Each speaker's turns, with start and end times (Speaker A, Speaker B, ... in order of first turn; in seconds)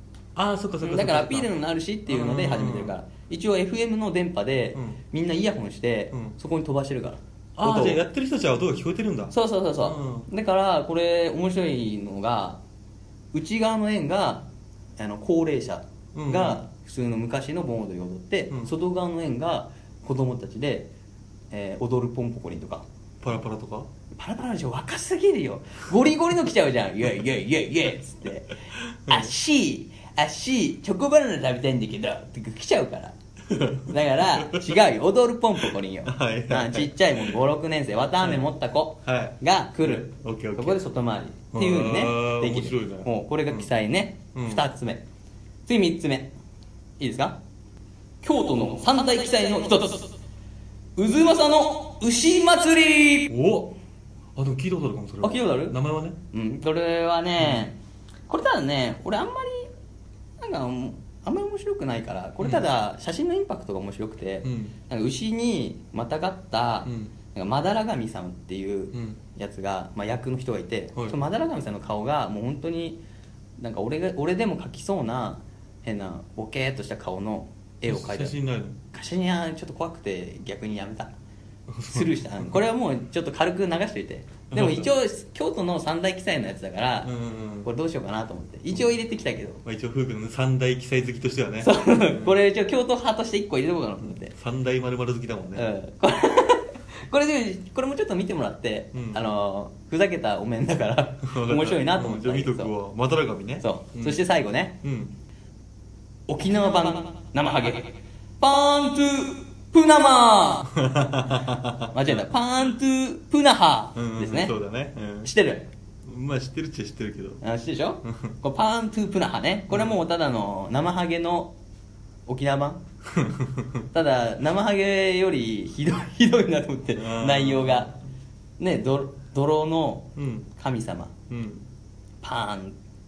Speaker A: 0.3-1.5, 2.1-2.9, 4.7-5.0, 7.6-10.3, 16.1-16.6, 23.2-23.9, 33.5-34.8, 36.0-37.4, 38.2-38.5, 39.0-40.8, 41.5-43.7, 44.3-44.6, 53.3-53.8, 54.3-56.2, 57.4-57.7, 62.4-62.6, 64.4-64.7, 66.8-67.1, 68.9-69.2, 77.8-78.8, 81.7-82.6, 84.5-84.9, 87.0-87.7, 89.6-92.4, 94.0-95.7, 98.9-99.2, 101.2-104.2, 104.8-105.1, 110.7-112.2, 114.0-115.3, 116.0-117.4, 118.0-118.3, 119.7-120.0, 123.1-123.8, 126.9-127.9, 130.2-130.5, 131.3-131.7
Speaker B: 0.8-8.0, 9.3-12.6, 13.3-14.5, 15.0-20.9, 21.5-22.9, 24.1-28.6, 29.1-33.1, 33.9-45.0, 45.6-46.3, 47.0-47.4, 48.2-50.1, 51.0-53.3, 55.2-55.8, 56.3-57.8, 58.3-59.7, 60.4-73.0, 73.6-78.4, 78.9-81.1, 81.9-87.1, 87.6-89.6, 91.6-94.3, 95.5-102.7, 103.6-104.8, 106.3-110.7, 111.9-114.5, 115.2-115.7, 117.4-121.5, 122.3-122.8, 123.9-128.0, 128.6-131.1, 132.2-132.8